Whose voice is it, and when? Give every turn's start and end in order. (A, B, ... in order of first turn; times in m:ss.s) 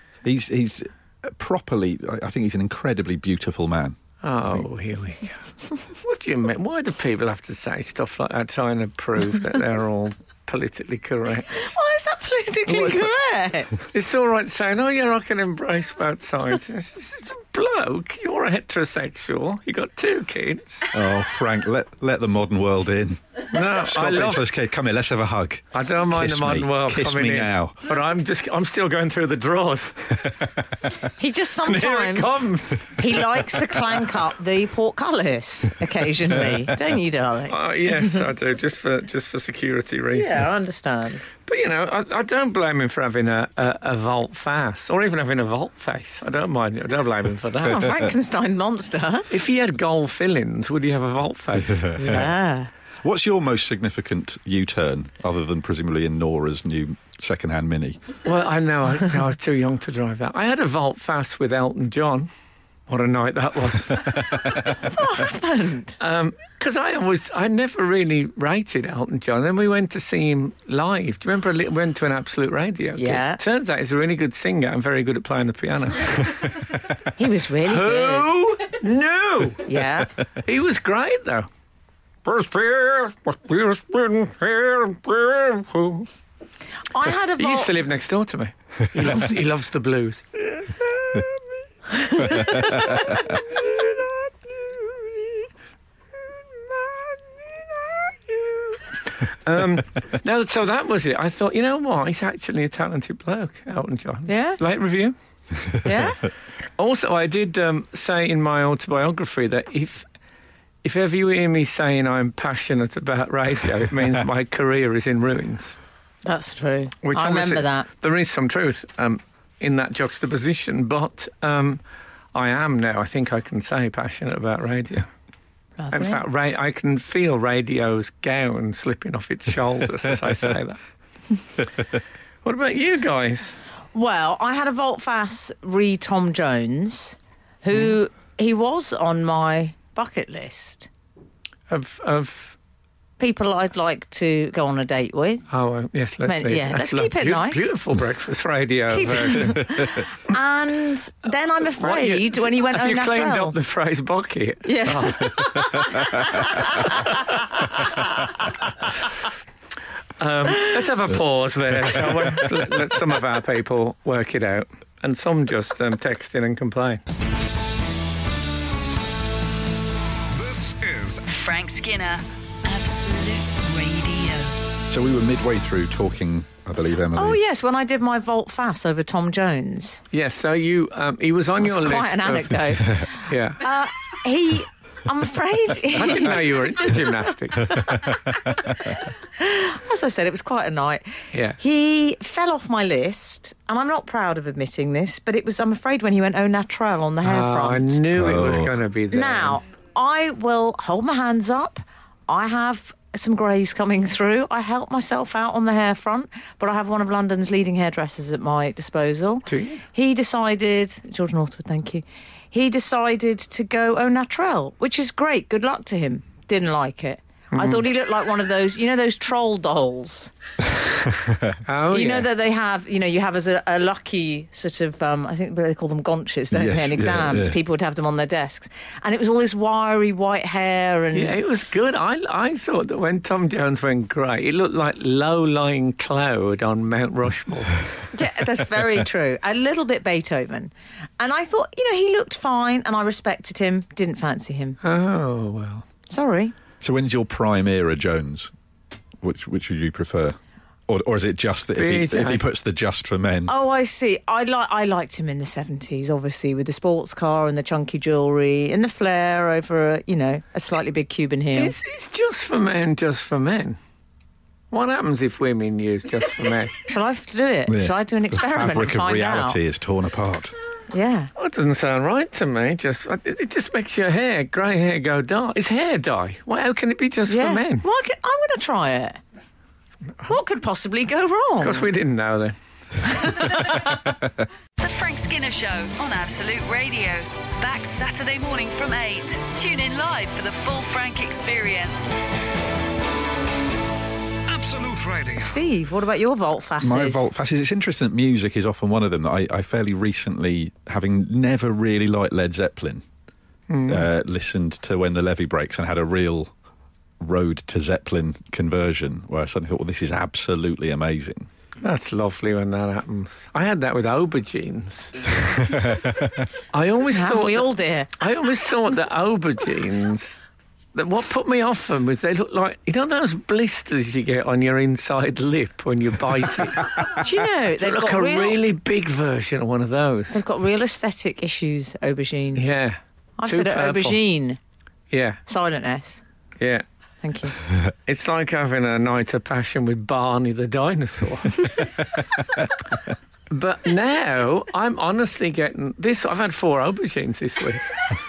0:00.2-0:04.6 A
0:04.2-0:11.7 B
0:11.5-0:13.8 C
0:12.7-0:13.1 A
0:13.9-0:20.9 B
0:20.9-0:27.8 A
0:23.5-0:24.4 B
0:25.7-0:30.3 B
0:31.2-0:38.2 C
0:31.6-0:33.6 B
0:37.5-0:40.5 B
0:40.1-0:41.2 C
0:41.4-0:47.9 B
0:47.6-0:49.3 C
0:49.3-0:52.2 B
0:51.7-0:52.3 A
0:52.0-0:52.7 C
0:53.0-0:58.0 A
0:58.2-1:02.3 B
1:02.9-1:04.7 B
1:04.9-1:06.0 C
1:06.0-1:16.8 B
1:13.0-1:13.4 C
1:17.2-1:18.3 C
1:17.6-1:19.8 B
1:19.6-1:20.1 C
1:20.4-1:21.5 B
1:22.2-1:26.1 B
1:26.9-1:27.7 C
1:27.4-1:31.4 B
1:32.0-1:33.2 C
1:32.1-1:35.5 B
1:36.5-1:45.1 B
1:44.3-1:44.6 C
1:45.8-1:46.2 C
1:46.8-1:50.0 B
1:50.8-1:55.8 B
1:56.2-1:57.9 C
1:57.0-2:01.8 B
2:02.3-2:05.1 B
2:05.8-2:06.2 C
2:05.9-2:10.8 B
2:12.4-2:13.6 B
2:13.9-2:20.9 C
2:21.7-2:22.6 B
2:23.2-2:25.4 C
2:25.5-2:30.0 B
2:26.2-2:27.7 C
2:28.9-2:33.5 C
2:31.8-2:35.9 B
2:34.6-2:38.3 C
2:36.4-2:37.2 B
2:40.2-2:47.0 B
2:50.3-2:51.3 D
2:51.3-2:54.5 E
2:54.9-2:57.4 A
2:57.1-3:00.0 C
3:00.1-3:03.6 B
3:01.6-3:07.0 C
3:05.9-3:07.8 B
3:07.9-3:18.0 C
3:11.3-3:11.6 B
3:17.2-3:19.6 B
3:18.1-3:18.7 A
3:19.1-3:40.3 C
3:29.5-3:29.8 B
3:37.5-3:37.8 B
3:40.7-3:41.6 A
3:41.7-3:42.3 B
3:41.9-3:51.4 C
3:46.5-3:47.6 A
3:51.1-3:57.8 B
3:58.1-4:04.8 C
4:04.8-4:05.8 B
4:06.1-4:06.5 C
4:06.8-4:08.5 A
4:09.2-4:10.4 A
4:10.9-4:13.5 A
4:11.7-4:12.4 B
4:13.5-4:21.7 C
4:21.5-4:23.8 B
4:24.7-4:26.8 B
4:26.8-4:29.6 C
4:27.7-4:30.5 A
4:30.9-4:31.3 C
4:31.4-4:37.8 B
4:37.3-4:39.2 C
4:40.2-4:41.9 C
4:41.6-4:43.8 B
4:43.0-4:44.0 C
4:44.8-4:52.1 E
4:54.5-4:55.6 D
4:55.4-4:57.3 C
4:56.8-5:03.0 A
5:03.7-5:04.0 B
5:03.9-5:06.5 A
5:07.2-5:11.5 A
5:11.8-5:15.3 B
5:15.7-5:16.2 A
5:16.7-5:20.4 B
5:17.1-5:18.1 C
5:20.9-5:27.2 B
5:27.1-5:28.6 C
5:27.8-5:30.4 B
5:30.3-5:32.6 C
5:32.6-5:34.2 B
5:33.4-5:34.6 C
5:35.1-5:35.4 B
5:35.5-5:36.2 C
5:37.2-5:37.5 C
5:38.0-5:42.2 B
5:43.5-5:48.0 B